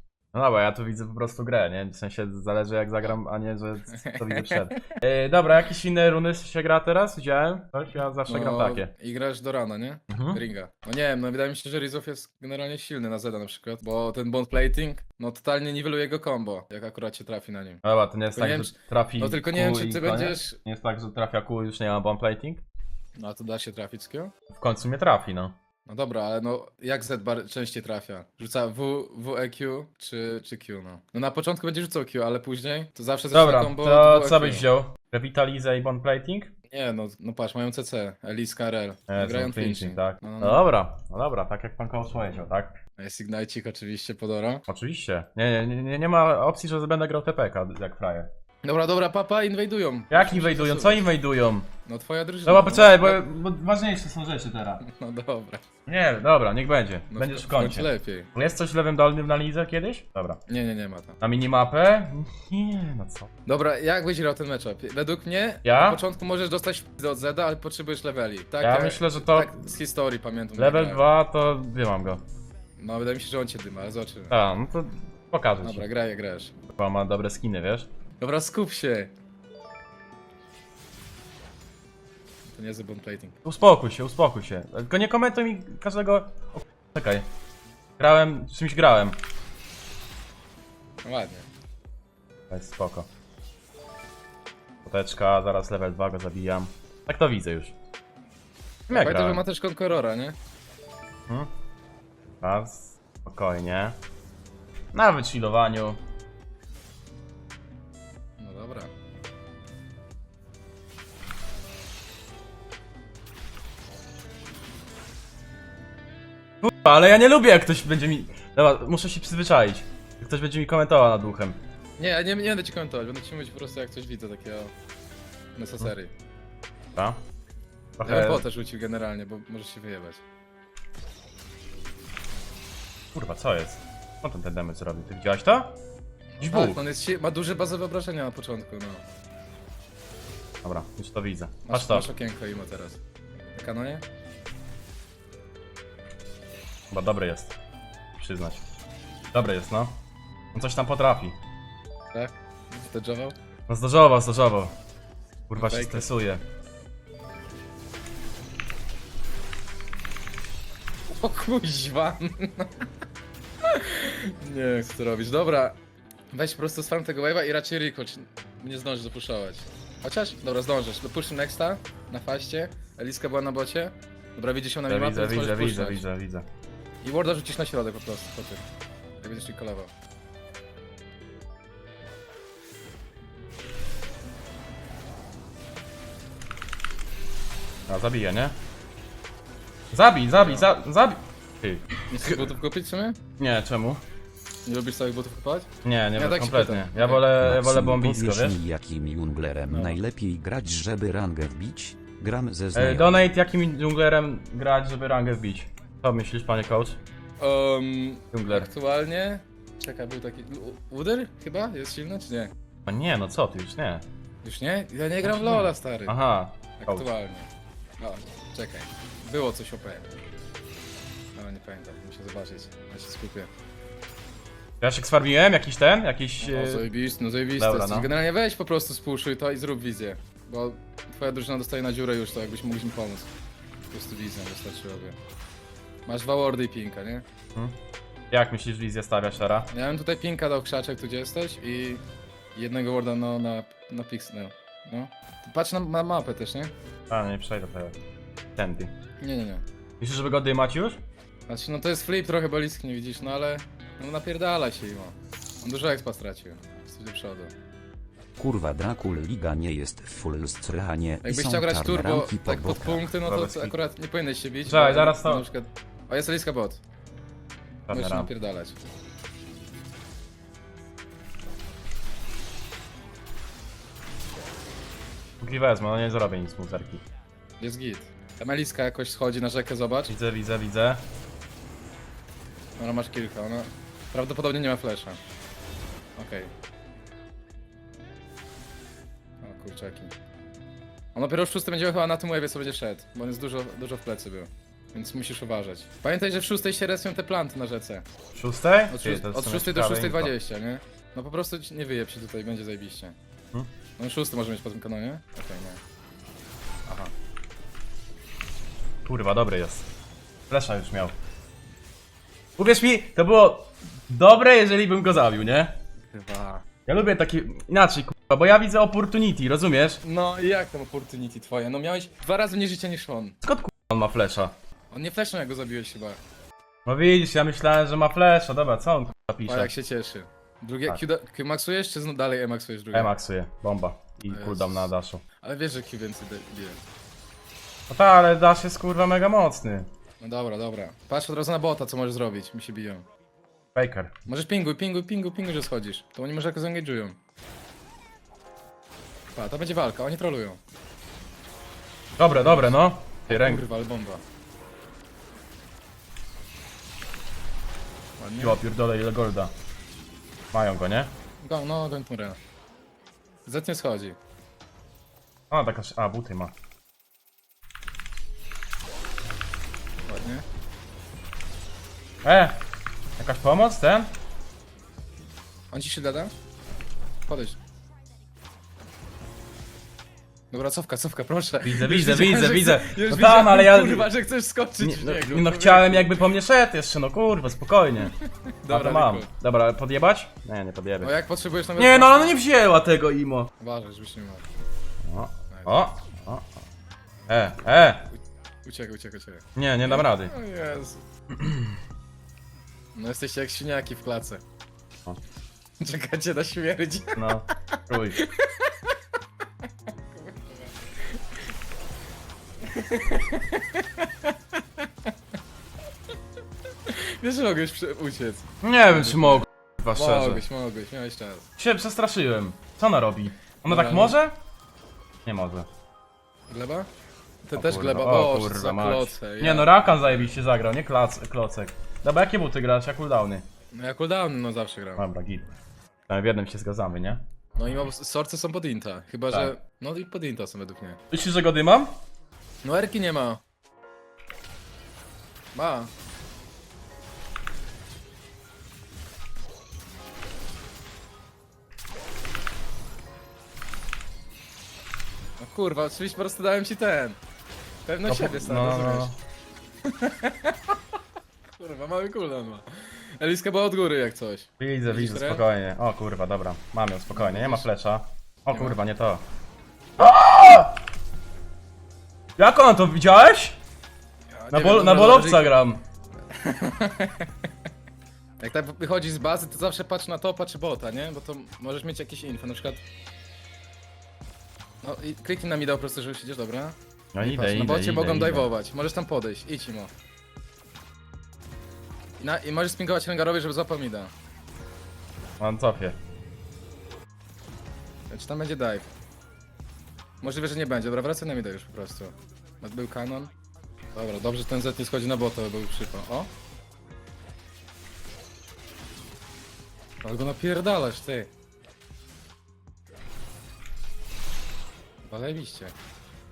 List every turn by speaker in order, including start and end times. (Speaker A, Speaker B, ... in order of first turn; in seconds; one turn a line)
Speaker A: 0.3-8.9
Speaker B: 3.9-4.8
Speaker B: 8.3-17.8
Speaker A: 10.1-10.4
Speaker A: 17.8-22.6
Speaker B: 18.4-20.6
Speaker B: 23.2-24.3
Speaker A: 24.5-25.5
Speaker B: 25.9-34.7
Speaker A: 33.3-36.5
Speaker B: 36.7-40.7
Speaker A: 39.1-42.8
Speaker B: 43.0-44.6
Speaker A: 44.7-48.3
Speaker B: 48.6-51.1
Speaker A: 50.1-51.7
Speaker B: 51.9-53.2
Speaker A: 52.4-54.8
Speaker B: 54.8-55.6
Speaker A: 55.9-60.4
Speaker B: 57.1-58.3
Speaker B: 60.5-61.2
Speaker A: 61.2-63.3
Speaker B: 63.5-71.0
Speaker A: 65.6-66.0
Speaker A: 68.6-69.7
Speaker A: 70.6-72.2
Speaker B: 72.8-74.3
Speaker A: 74.3-75.8
Speaker B: 75.6-76.5
Speaker A: 76.7-77.9
Speaker B: 78.2-79.1
Speaker B: 82.5-83.3
Speaker A: 83.4-87.3
Speaker A: 88.0-89.2
Speaker B: 91.0-91.5
Speaker A: 92.5-93.1
Speaker A: 94.8-97.7
Speaker A: 98.9-99.4
Speaker B: 98.9-100.3
Speaker A: 102.4-104.0
Speaker A: 104.9-106.0
Speaker B: 108.4-108.9
Speaker A: 116.6-121.6
Speaker B: 122.0-124.7
Speaker B: 125.5-126.1
Speaker A: 127.0-127.2
Speaker A: 128.0-128.4
Speaker B: 128.1-130.2
Speaker A: 133.1-135.8
Speaker A: 136.4-136.8
Speaker B: 136.4-139.0
Speaker A: 140.6-142.1
Speaker B: 141.7-143.0
Speaker B: 143.6-144.0
Speaker A: 146.9-147.5
Speaker A: 148.2-148.6
Speaker A: 149.3-150.0
Speaker A: 150.5-151.3
Speaker B: 152.1-153.3
Speaker A: 153.7-154.7
Speaker A: 155.5-156.4
Speaker B: 155.6-156.1
Speaker B: 161.1-162.7
Speaker B: 163.6-165.8
Speaker B: 166.3-176.0
Speaker A: 174.9-176.4
Speaker B: 177.0-178.6
Speaker B: 179.2-179.9
Speaker A: 187.9-188.5
Speaker A: 189.9-192.4
Speaker B: 190.3-190.7
Speaker B: 192.1-193.2
Speaker A: 193.4-194.0
Speaker B: 194.7-197.2
Speaker A: 195.8-198.6
Speaker C: 197.4-203.2
Speaker B: 199.7-200.0
Speaker A: 202.7-207.0
Speaker B: 207.4-212.5
Speaker A: 208.3-208.7
Speaker A: 212.8-214.0
Speaker B: 214.4-216.2
Speaker A: 215.2-217.1
Speaker B: 216.8-217.5
Speaker B: 218.0-220.2
Speaker B: 221.3-223.5
Speaker A: 224.8-226.9
Speaker B: 226.4-233.3
Speaker A: 227.6-228.1
Speaker B: 233.9-235.2
Speaker B: 236.1-237.2
Speaker A: 238.3-239.7
Speaker B: 239.7-242.0
Speaker B: 242.5-246.7
Speaker A: 247.1-247.9
Speaker A: 248.6-248.9
Speaker B: 249.2-249.6
Speaker A: 250.0-251.0
Speaker B: 251.5-257.5
Speaker C: 258.4-263.1
Speaker B: 261.2-266.8
Speaker A: 263.2-263.7
Speaker A: 264.6-265.4
Speaker A: 267.9-268.3
Speaker B: 267.9-268.8
Speaker A: 275.4-277.0
Speaker B: 277.6-280.1
Speaker A: 280.1-281.0
Speaker B: 282.8-285.2
Speaker B: 286.2-286.5
Speaker B: 289.4-290.1
Speaker B: 291.1-298.0
Speaker A: 298.3-300.3
Speaker B: 298.9-303.1
Speaker B: 304.0-305.8
Speaker B: 306.9-307.1
Speaker A: 309.0-309.9
Speaker A: 310.5-311.1
Speaker A: 312.6-315.8
Speaker B: 316.1-316.6
Speaker A: 316.9-320.0
Speaker B: 320.0-323.4
Speaker A: 323.4-324.5
Speaker B: 324.9-326.2
Speaker A: 326.9-329.7
Speaker B: 329.4-333.1
Speaker A: 332.9-335.2
Speaker B: 334.3-334.9
Speaker B: 335.4-336.8
Speaker A: 337.9-339.9
Speaker B: 340.2-343.0
Speaker A: 343.7-344.1
Speaker B: 344.3-347.1
Speaker B: 349.4-350.6
Speaker A: 352.2-353.6
Speaker B: 352.2-354.2
Speaker B: 358.2-358.6
Speaker A: 358.4-359.5
Speaker A: 360.5-361.1
Speaker B: 361.4-362.4
Speaker B: 363.4-364.1
Speaker A: 365.5-366.5
Speaker B: 370.1-370.4
Speaker A: 372.2-372.6
Speaker A: 373.2-374.1
Speaker B: 375.7-376.3
Speaker B: 377.3-377.6
Speaker B: 380.5-386.2
Speaker A: 381.6-384.1
Speaker A: 384.8-388.1
Speaker B: 388.4-389.3
Speaker A: 388.7-391.1
Speaker B: 391.0-392.4
Speaker A: 391.8-393.5
Speaker B: 393.6-394.4
Speaker A: 395.0-396.5
Speaker B: 395.5-395.8
Speaker A: 397.3-398.1
Speaker B: 398.6-401.0
Speaker A: 399.6-400.3
Speaker B: 402.9-404.4
Speaker B: 405.8-407.2
Speaker A: 407.1-408.2
Speaker B: 408.1-408.9
Speaker B: 410.1-410.7
Speaker B: 412.7-414.8
Speaker B: 416.9-421.5
Speaker A: 418.6-420.4
Speaker A: 421.6-424.3
Speaker B: 423.6-424.2
Speaker A: 425.2-425.6
Speaker B: 426.5-426.9
Speaker B: 427.4-429.7
Speaker A: 427.6-433.4
Speaker B: 433.7-435.0
Speaker A: 435.0-435.4
Speaker A: 436.1-437.2
Speaker B: 437.6-441.0
Speaker A: 441.1-441.9
Speaker B: 442.6-443.4
Speaker B: 445.5-445.9
Speaker B: 455.4-457.2
Speaker B: 457.9-459.1
Speaker A: 458.1-459.1
Speaker B: 459.9-460.7
Speaker B: 461.6-465.4
Speaker A: 464.6-469.2
Speaker B: 467.1-467.7
Speaker B: 468.5-468.8
Speaker A: 470.0-470.7
Speaker A: 472.4-473.6
Speaker B: 474.3-475.6
Speaker A: 474.5-475.8
Speaker B: 476.4-477.3
Speaker B: 478.4-482.8
Speaker B: 484.8-489.9
Speaker A: 487.1-488.5
Speaker B: 492.2-494.1
Speaker A: 495.4-496.0
Speaker B: 498.1-498.9
Speaker B: 500.2-503.3
Speaker B: 503.9-506.3
Speaker B: 510.0-511.3
Speaker B: 515.1-515.7